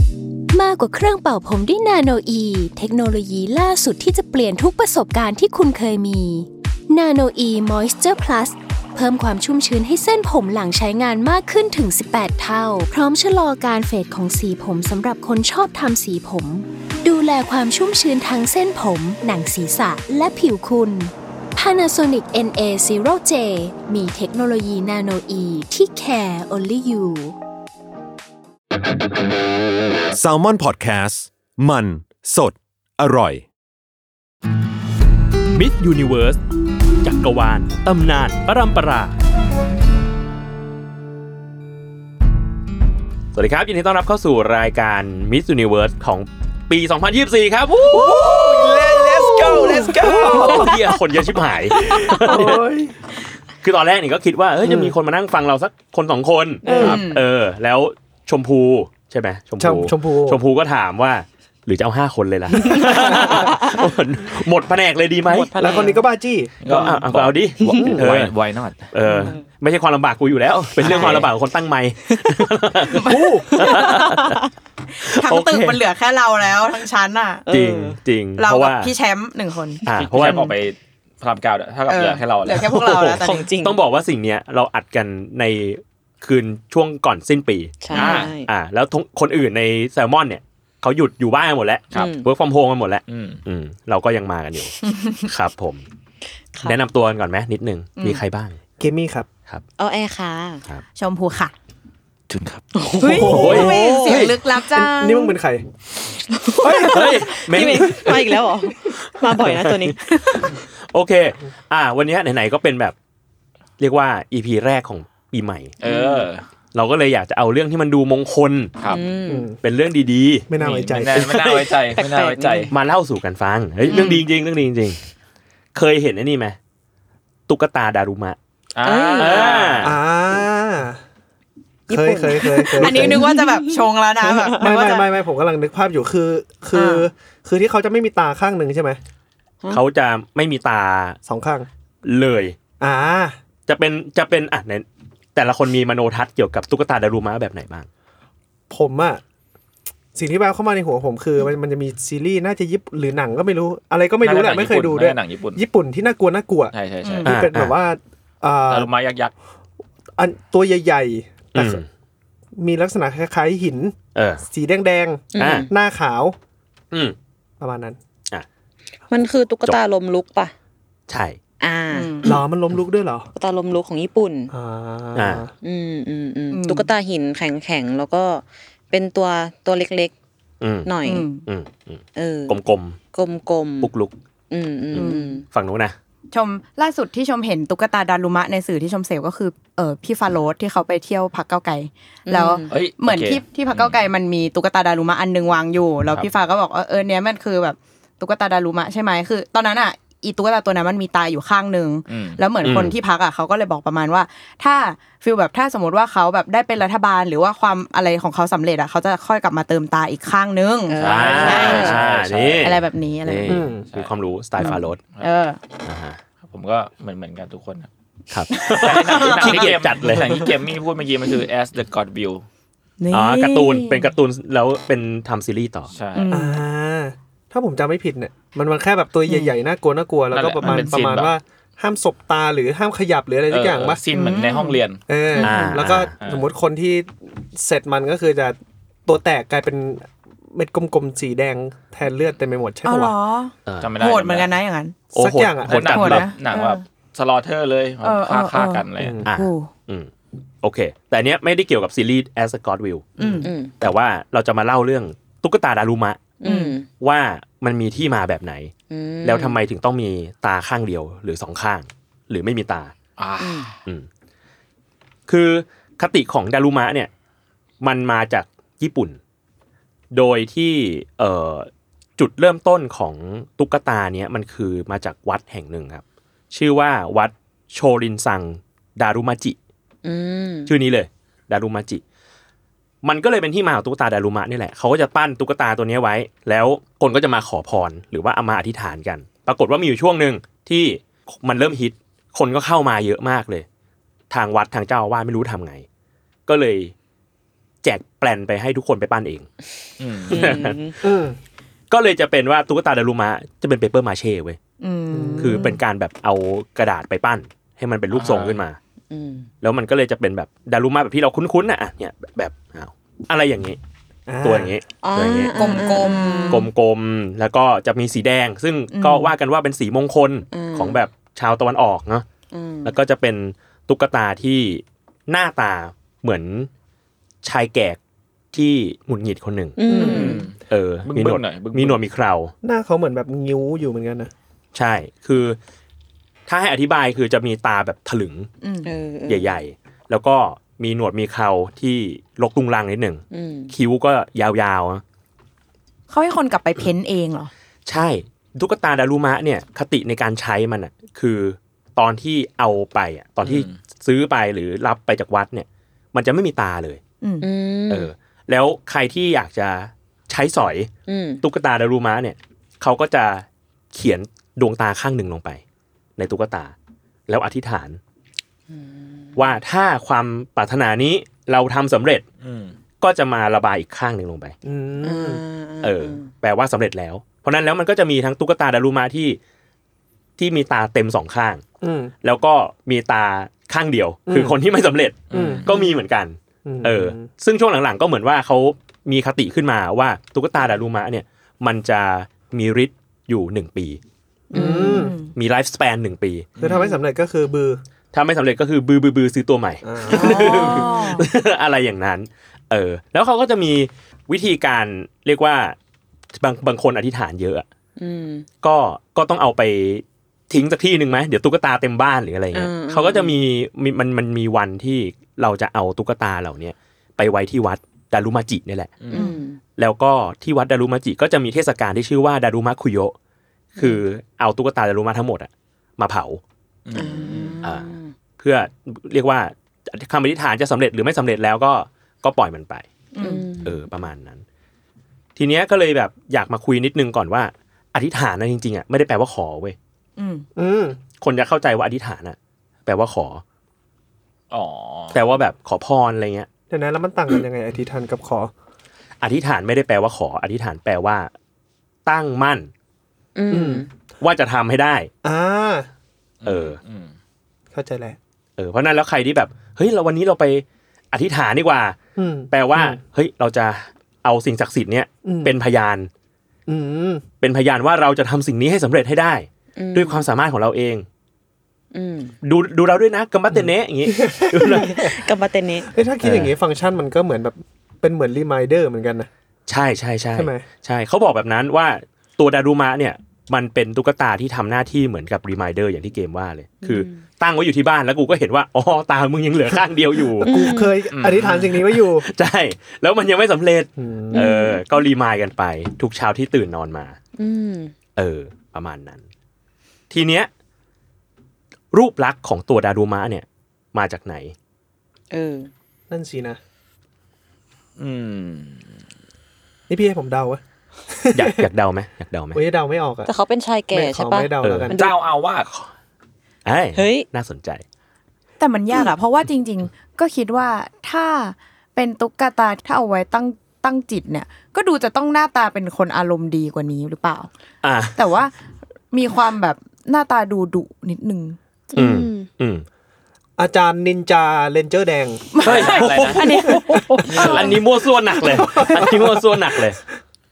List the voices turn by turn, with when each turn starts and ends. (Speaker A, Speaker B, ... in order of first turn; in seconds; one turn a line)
Speaker A: 0.5-27.3
Speaker B: 30.1-33.4
Speaker C: 35.5-36.4
Speaker C: 37.0-39.1
Speaker C: 43.3-52.6
Speaker D: 48.1-50.7
Speaker E: 48.6-50.4
Speaker F: 49.8-50.7
Speaker D: 52.0-53.0
Speaker C: 53.6-65.5
Speaker D: 54.6-54.9
Speaker F: 56.6-57.1
Speaker D: 56.7-57.0
Speaker G: 56.7-57.2
Speaker D: 59.6-60.4
Speaker F: 62.8-63.7
Speaker F: 65.2-66.0
Speaker D: 65.6-66.9
Speaker E: 66.6-68.9
Speaker C: 66.7-68.3
Speaker C: 68.9-74.4
Speaker F: 69.0-69.4
Speaker E: 70.8-71.3
Speaker G: 72.9-73.8
Speaker D: 73.0-73.5
Speaker F: 73.7-74.4
Speaker C: 75.0-75.8
Speaker G: 75.0-77.5
Speaker F: 77.5-78.0
Speaker C: 77.5-78.9
Speaker G: 78.4-80.5
Speaker C: 79.8-80.4
Speaker E: 79.9-82.7
Speaker G: 81.9-83.5
Speaker C: 82.6-95.8
Speaker F: 83.2-83.8
Speaker F: 87.8-88.5
Speaker E: 87.9-88.3
Speaker F: 91.9-92.3
Speaker E: 93.1-93.4
Speaker C: 96.6-98.6
Speaker D: 98.8-99.3
Speaker F: 99.8-100.6
Speaker G: 101.0-101.5
Speaker E: 102.3-102.7
Speaker F: 102.7-104.3
Speaker G: 103.0-105.3
Speaker D: 103.1-103.8
Speaker C: 103.3-104.3
Speaker D: 104.5-105.6
Speaker F: 106.3-110.0
Speaker D: 106.6-107.9
Speaker C: 106.8-108.3
Speaker C: 109.4-110.0
Speaker G: 110.1-110.4
Speaker C: 110.9-112.9
Speaker C: 113.8-115.7
Speaker E: 115.8-116.4
Speaker F: 115.8-116.3
Speaker C: 116.7-118.7
Speaker F: 118.8-119.5
Speaker D: 119.3-119.6
Speaker C: 119.6-120.5
Speaker D: 120.5-121.3
Speaker E: 120.6-122.7
Speaker C: 121.2-121.6
Speaker F: 121.9-122.7
Speaker C: 122.7-125.0
Speaker G: 123.8-124.2
Speaker C: 125.7-126.6
Speaker C: 127.5-128.4
Speaker E: 128.7-129.9
Speaker F: 128.8-129.6
Speaker C: 129.2-129.9
Speaker D: 129.8-131.0
Speaker F: 131.9-134.7
Speaker D: 131.9-133.3
Speaker G: 132.8-135.1
Speaker D: 134.6-139.0
Speaker G: 136.7-137.1
Speaker C: 139.7-141.2
Speaker D: 141.2-141.7
Speaker C: 142.0-142.6
Speaker D: 142.8-143.4
Speaker C: 143.7-147.9
Speaker D: 148.7-149.2
Speaker D: 150.1-158.9
Speaker E: 154.2-155.6
Speaker E: 156.7-157.3
Speaker G: 157.0-157.3
Speaker C: 157.2-157.8
Speaker E: 158.7-159.3
Speaker D: 160.2-161.8
Speaker C: 161.5-161.9
Speaker D: 162.6-166.3
Speaker C: 164.1-164.4
Speaker F: 165.3-165.7
Speaker C: 165.4-165.7
Speaker D: 167.6-168.0
Speaker F: 169.1-170.5
Speaker C: 171.1-171.4
Speaker F: 171.6-172.3
Speaker G: 171.9-172.3
Speaker D: 172.2-173.3
Speaker F: 173.3-174.5
Speaker D: 174.5-175.5
Speaker C: 175.1-175.4
Speaker F: 175.6-180.1
Speaker G: 176.5-176.9
Speaker C: 180.6-180.9
Speaker F: 180.8-181.3
Speaker G: 181.0-181.4
Speaker C: 181.4-183.0
Speaker F: 182.2-182.6
Speaker F: 183.1-183.9
Speaker C: 183.8-184.1
Speaker F: 184.5-185.4
Speaker C: 184.9-185.9
Speaker G: 184.9-185.4
Speaker G: 186.3-211.9
Speaker F: 192.3-192.7
Speaker E: 192.7-194.0
Speaker E: 202.1-202.4
Speaker C: 202.6-203.0
Speaker F: 210.9-212.0
Speaker E: 211.0-212.8
Speaker C: 211.0-215.0
Speaker G: 212.6-213.7
Speaker D: 213.5-213.8
Speaker G: 214.6-215.6
Speaker C: 215.8-216.2
Speaker E: 216.5-217.9
Speaker C: 218.3-220.4
Speaker G: 218.5-219.7
Speaker E: 218.8-222.4
Speaker G: 223.0-224.1
Speaker C: 223.1-225.9
Speaker E: 225.9-226.3
Speaker G: 226.2-226.6
Speaker D: 226.3-234.0
Speaker E: 230.3-231.3
Speaker G: 230.6-230.9
Speaker E: 233.5-235.0
Speaker G: 234.1-235.7
Speaker D: 235.1-243.1
Speaker C: 235.4-236.1
Speaker E: 236.2-236.5
Speaker G: 242.8-245.0
Speaker C: 243.7-243.9
Speaker E: 243.8-244.5
Speaker D: 245.1-246.2
Speaker C: 245.1-246.3
Speaker E: 245.7-249.2
Speaker G: 245.8-246.8
Speaker G: 248.0-249.7
Speaker D: 249.0-249.3
Speaker C: 249.2-250.1
Speaker C: 250.6-253.1
Speaker D: 253.2-253.5
Speaker G: 253.2-253.5
Speaker F: 253.4-253.7
Speaker C: 253.8-256.2
Speaker F: 256.4-256.9
Speaker G: 256.4-256.7
Speaker C: 257.0-262.9
Speaker F: 258.9-259.6
Speaker E: 263.2-263.7
Speaker F: 263.4-263.7
Speaker C: 265.3-267.1
Speaker C: 267.8-269.2
Speaker C: 270.1-279.6
Speaker F: 280.0-280.7
Speaker C: 280.6-282.0
Speaker C: 283.0-293.6
Speaker C: 294.3-295.9
Speaker C: 296.4-296.9
Speaker C: 297.8-299.5
Speaker E: 300.0-300.6
Speaker C: 300.3-300.8
Speaker F: 300.3-300.9
Speaker D: 301.0-301.4
Speaker C: 301.9-304.6
Speaker G: 304.8-305.8
Speaker D: 305.1-305.7
Speaker C: 305.4-308.8
Speaker E: 308.1-308.6
Speaker F: 309.1-309.5
Speaker C: 309.6-313.8
Speaker D: 314.3-314.8
Speaker C: 314.4-315.6
Speaker F: 315.0-316.6
Speaker G: 315.5-316.7
Speaker C: 316.5-322.2
Speaker G: 318.9-319.3
Speaker F: 320.5-321.0
Speaker F: 322.5-322.9
Speaker C: 322.8-326.7
Speaker C: 327.4-328.0
Speaker C: 328.5-329.8
Speaker F: 329.8-330.5
Speaker D: 329.9-330.4
Speaker E: 329.9-332.0
Speaker C: 330.7-332.5
Speaker D: 332.6-334.3
Speaker C: 334.7-335.6
Speaker C: 336.5-338.5
Speaker G: 338.6-338.9
Speaker F: 338.8-339.6
Speaker C: 339.3-345.0
Speaker F: 343.3-343.7
Speaker G: 346.1-347.5
Speaker C: 347.9-357.0
Speaker E: 353.4-353.8
Speaker G: 357.2-357.5
Speaker F: 357.4-358.1
Speaker C: 357.9-360.9
Speaker F: 361.1-361.4
Speaker C: 361.4-365.6
Speaker C: 366.2-366.7
Speaker C: 367.3-368.0
Speaker F: 368.7-369.3
Speaker C: 369.4-372.2
Speaker E: 372.4-372.7
Speaker C: 373.0-374.5
Speaker D: 374.6-375.4
Speaker F: 375.0-376.3
Speaker C: 375.8-379.4
Speaker C: 380.4-381.6
Speaker D: 381.8-382.1
Speaker C: 382.2-394.0
Speaker D: 384.3-384.6
Speaker E: 385.3-385.7
Speaker D: 385.3-385.6
Speaker D: 386.6-387.3
Speaker D: 394.5-395.1
Speaker G: 394.5-395.3
Speaker F: 394.6-395.1
Speaker C: 395.3-396.5
Speaker E: 396.6-396.9
Speaker D: 396.6-397.8
Speaker G: 396.6-397.0
Speaker C: 398.1-405.8
Speaker D: 399.8-400.6
Speaker G: 400.1-401.3
Speaker C: 406.3-407.6
Speaker F: 408.0-408.4
Speaker C: 408.6-418.9
Speaker F: 412.5-413.4
Speaker E: 419.0-419.3
Speaker F: 419.1-419.6
Speaker G: 419.1-419.4
Speaker C: 419.8-423.1
Speaker C: 423.8-426.4
Speaker E: 426.9-427.6
Speaker F: 426.9-428.1
Speaker C: 427.6-432.9
Speaker G: 433.1-433.4
Speaker F: 433.2-433.8
Speaker C: 433.6-434.4
Speaker C: 435.4-439.8
Speaker G: 440.2-440.5
Speaker D: 440.6-441.0
Speaker C: 441.2-443.4
Speaker E: 444.5-445.2
Speaker C: 445.1-446.5
Speaker D: 446.7-448.5
Speaker C: 449.2-451.3
Speaker C: 452.0-452.7
Speaker F: 453.4-453.9
Speaker D: 453.5-453.8
Speaker C: 454.2-455.1
Speaker D: 455.2-455.9
Speaker E: 456.4-457.1
Speaker C: 456.4-456.8
Speaker D: 457.7-458.2
Speaker C: 458.6-462.0
Speaker D: 462.1-463.0
Speaker C: 462.5-466.1
Speaker D: 465.2-465.5
Speaker D: 466.7-467.2
Speaker C: 467.4-471.1
Speaker F: 469.8-470.2
Speaker F: 471.9-472.3
Speaker C: 472.4-475.1
Speaker D: 473.5-475.1
Speaker F: 474.9-475.9
Speaker D: 475.9-479.3
Speaker C: 476.2-476.5
Speaker C: 479.7-490.5
Speaker D: 480.3-480.6
Speaker F: 486.8-487.2
Speaker D: 490.4-492.2
Speaker F: 490.4-491.0
Speaker E: 491.1-491.8
Speaker C: 492.2-497.2
Speaker D: 494.0-494.4
Speaker F: 494.3-494.8
Speaker F: 497.4-497.9
Speaker C: 498.1-499.2
Speaker C: 500.1-500.5
Speaker C: 501.9-504.5
Speaker F: 505.3-505.7
Speaker D: 506.1-506.6
Speaker E: 508.0-508.9
Speaker D: 509.9-511.7
Speaker C: 511.3-512.6
Speaker D: 512.5-513.3
Speaker F: 513.2-515.1
Speaker D: 513.9-515.0
Speaker C: 514.6-514.9
Speaker E: 514.9-515.7
Speaker C: 516.6-517.8
Speaker F: 516.9-517.3
Speaker G: 518.6-527.5
Speaker C: 527.8-528.2
Speaker G: 528.1-528.5
Speaker G: 529.1-531.6
Speaker F: 531.9-532.5
Speaker C: 532.0-532.9
Speaker D: 533.6-535.6
Speaker G: 535.5-537.6
Speaker E: 535.6-536.7
Speaker C: 535.6-536.4
Speaker D: 536.6-537.5
Speaker E: 537.2-537.8
Speaker C: 537.4-540.0
Speaker D: 538.5-539.8